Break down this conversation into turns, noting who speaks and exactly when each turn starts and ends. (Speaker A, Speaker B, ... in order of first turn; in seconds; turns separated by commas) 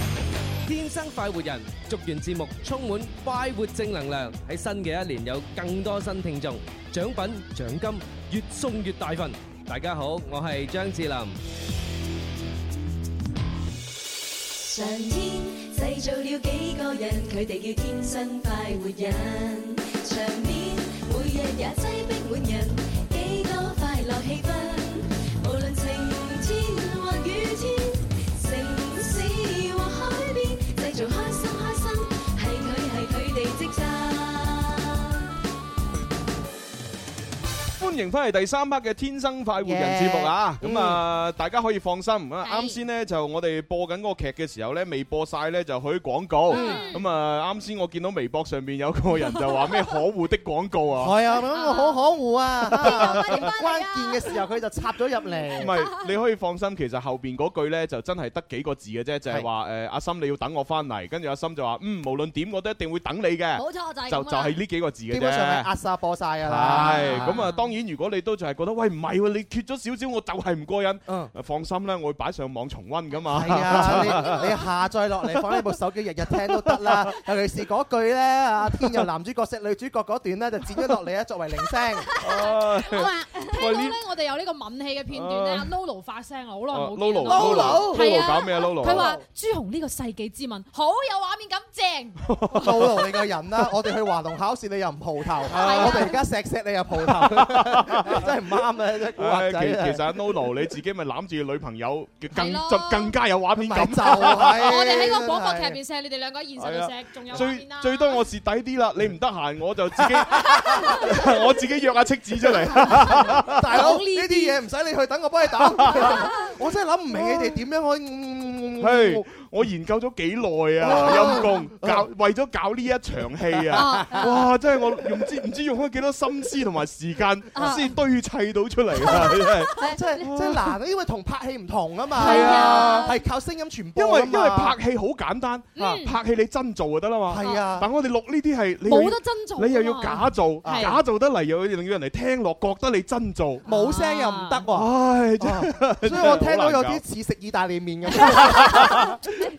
Speaker A: 0.6-11.4, Speaker B: 14.5-35.2, Speaker C: 37.8-51.2, Speaker D: 39.6-41.0, Speaker E: 42.4-42.8, Speaker E: 46.5-47.0, Speaker D: 46.5-46.9, Speaker D: 51.0-55.8, Speaker E: 51.5-52.0, Speaker C: 52.8-53.5, Speaker E: 52.8-54.3, Speaker C: 55.6-65.7, Speaker E: 63.5-64.6, Speaker D: 65.1-67.5, Speaker C: 66.4-74.5, Speaker E: 66.7-67.7, Speaker D: 73.3-82.1, Speaker C: 82.2-84.0, Speaker E: 82.2-92.2, Speaker C: 85.1-85.7, Speaker C: 86.7-89.2, Speaker D: 87.2-88.0, Speaker D: 88.9-89.2, Speaker C: 92.3-93.0, Speaker D: 92.5-100.0, Speaker E: 95.5-96.2, Speaker C: 95.5-95.9, Speaker C: 97.2-98.2, Speaker C: 99.2-104.8, Speaker E: 102.3-103.1, Speaker D: 103.5-105.8, Speaker E: 104.3-108.2, Speaker C: 106.6-113.7, Speaker D: 112.4-119.3, Speaker E: 113.7-114.6, Speaker C: 115.8-116.1, Speaker E: 115.9-116.3, Speaker C: 118.8-130.6, Speaker D: 120.8-122.0, Speaker E: 123.7-124.5, Speaker E: 127.5-127.9, Speaker E: 129.0-130.2, Speaker D: 129.8-134.8, Speaker C: 132.2-133.1, Speaker E: 132.2-133.1, Speaker C: 133.9-143.7, Speaker E: 135.8-136.2, Speaker D: 137.3-137.9, Speaker E: 137.4-137.7, Speaker E: 138.8-141.0, Speaker D: 140.6-140.9, Speaker D: 143.6-149.1, Speaker E: 143.7-144.7, Speaker C: 144.7-147.0, Speaker C: 148.2-149.2